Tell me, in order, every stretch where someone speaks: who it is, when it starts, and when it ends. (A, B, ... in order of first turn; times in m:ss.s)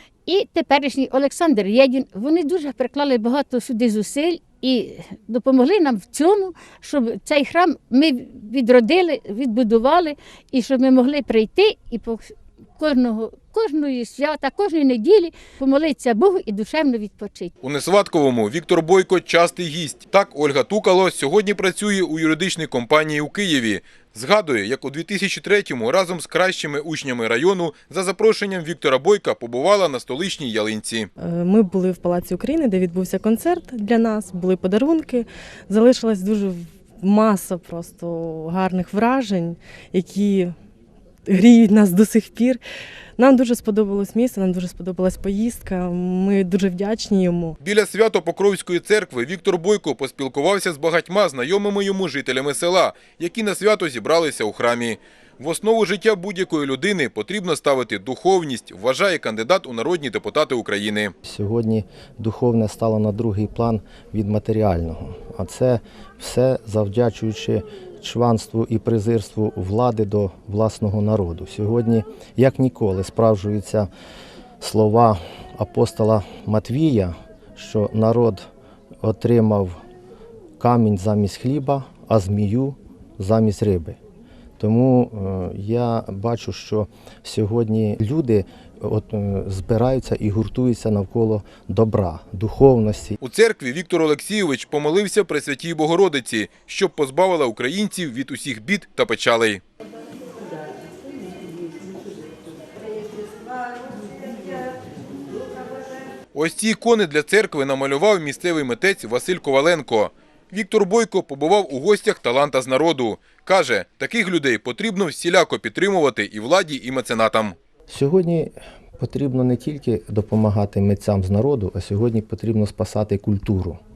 0:00.2-0:17.5 A
0:17.6-0:31.1 B
0:31.2-0:40.5 C
0:41.2-0:42.6 C
0:43.2-0:47.6 C
0:47.6-1:01.1 B
1:01.2-1:13.9 D
1:14.6-1:18.4 D
1:19.0-1:19.8 D
1:20.6-1:24.0 D
1:24.6-1:33.2 D
1:33.2-1:39.6 B
1:46.3-1:57.6 B
1:57.9-2:03.8 D